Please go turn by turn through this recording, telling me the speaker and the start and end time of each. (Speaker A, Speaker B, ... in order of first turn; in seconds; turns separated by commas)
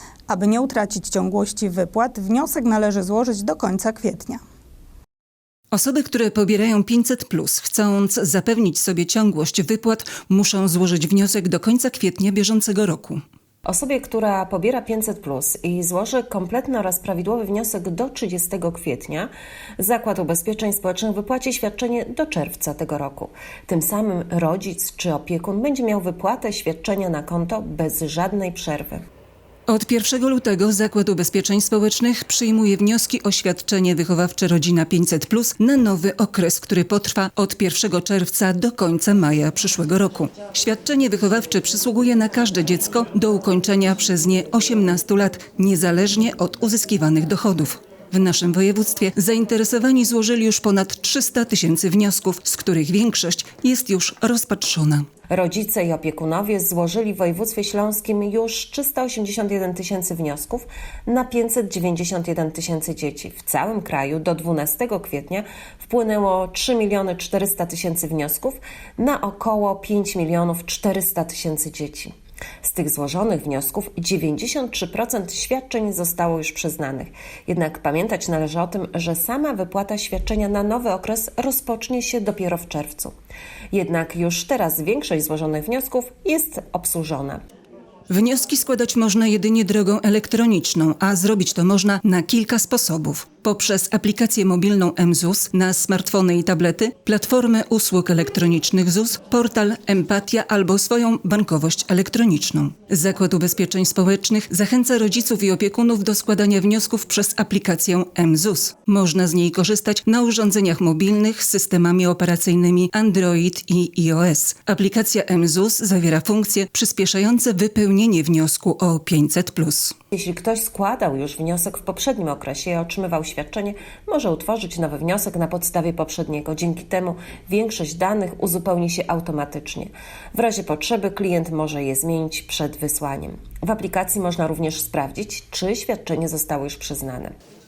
Speaker A: 0.3-4.4, Speaker B: 5.7-13.2, Speaker C: 13.7-29.0, Speaker B: 29.7-55.1, Speaker C: 55.3-83.1, Speaker C: 83.7-87.4, Speaker B: 88.1-120.0, Speaker C: 120.1-137.3